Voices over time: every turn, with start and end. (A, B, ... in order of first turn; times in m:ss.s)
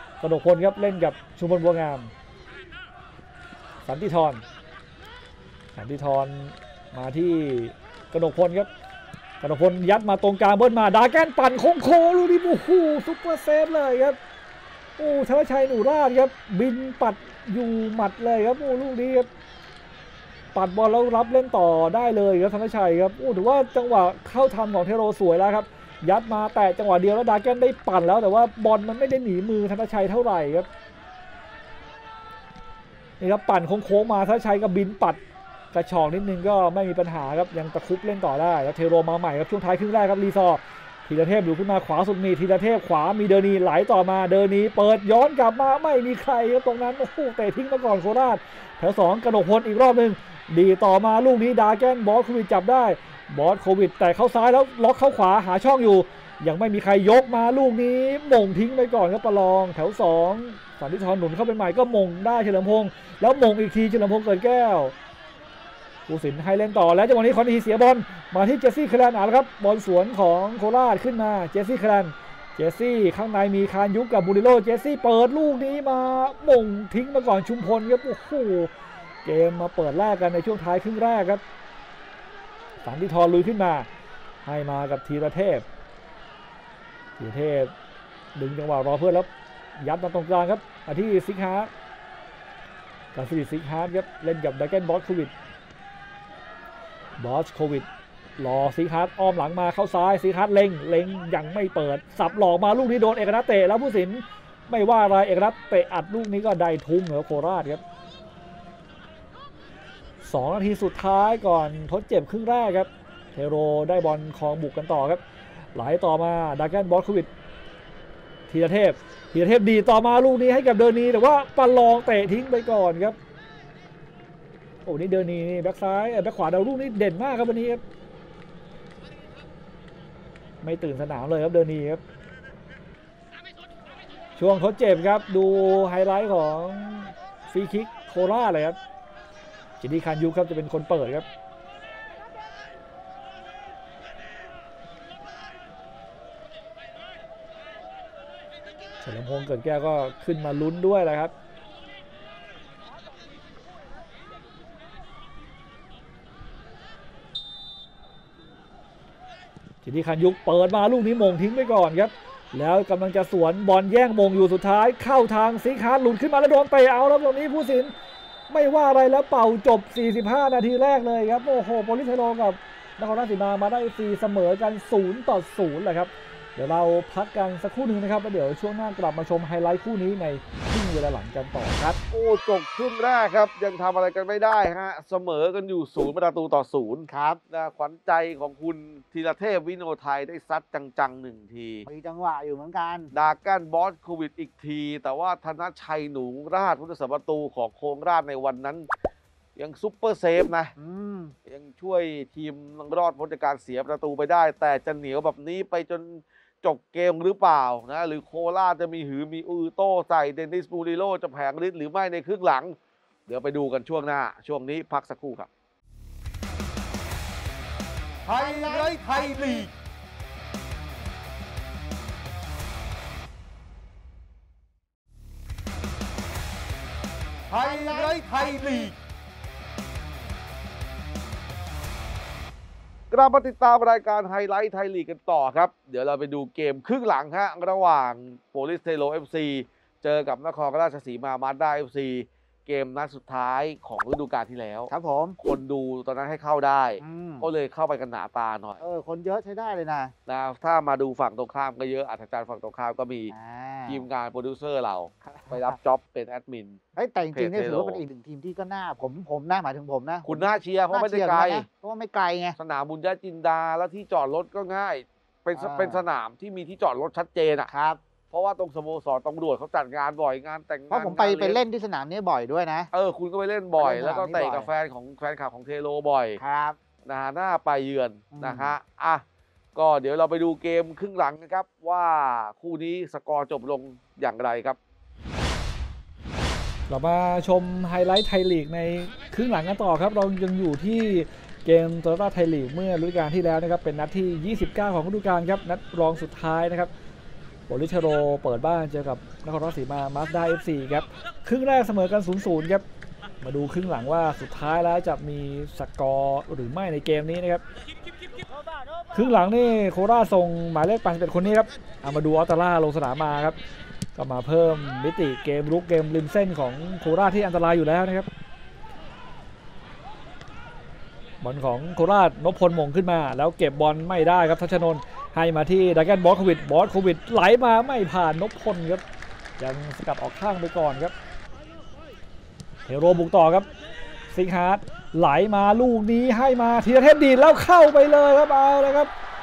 0:00.2-0:02.1 A
0:03.8-0:04.4 A
0:05.8-0:08.7 A
0:09.4-0:14.2 A
0:15.0-0:19.3 A
0:20.5-0:30.7 A
0:33.2-0:35.2 A
0:35.7-1:04.9 A
1:06.1-1:18.7 A
1:19.2-1:21.4 A
1:22.8-1:23.9 A
1:24.4-1:25.6 A
1:27.2-1:27.7 A
1:28.3-1:31.7 A
1:33.1-1:35.3 A
1:37.2-1:37.9 A
1:38.4-1:47.8 A
1:50.2-1:55.2 A
1:55.7-1:57.3 A
1:58.5-2:03.2 A
2:04.8-2:07.8 A
2:10.6-2:12.0 A
2:14.4-2:18.8 A
2:19.8-2:21.2 A
2:29.0-2:31.3 A
2:39.8-2:47.9 A
2:48.5-3:02.0 A
3:02.1-3:11.9 B
3:07.1-3:07.4 C
3:11.9-3:13.1 C
3:13.1-3:18.9 B
3:19.6-3:20.7 B
3:20.8-3:21.3 C
3:21.4-3:32.8 B
3:33.3-3:35.5 B
3:38.4-3:39.6 B
3:47.6-3:48.6 B
3:47.6-3:48.9 C
3:53.1-4:08.8 B
4:04.9-4:05.4 C
4:07.0-4:07.5 C
4:08.8-4:10.1 C
4:10.3-4:13.3 B
4:13.3-4:14.0 C
4:13.9-4:16.8 B
4:15.3-4:15.7 C
4:17.0-4:22.6 C
4:17.3-4:18.0 B
4:20.2-4:21.6 B
4:22.6-4:27.7 B
4:25.6-4:26.0 C
4:27.7-4:28.0 C
4:28.3-4:31.6 B
4:30.9-4:32.9 C
4:32.9-4:36.4 B
4:33.8-4:34.7 C
4:36.4-4:36.8 C
4:37.0-4:39.2 B
4:38.3-4:38.7 C
4:39.7-4:44.8 B
4:46.9-4:56.9 A
4:57.7-5:02.8 A
5:03.4-5:07.6 A
5:09.1-5:13.6 A
5:14.2-5:18.3 A
5:21.4-5:29.0 A
5:29.6-5:31.1 A
5:32.8-5:33.7 A
5:34.3-5:39.1 A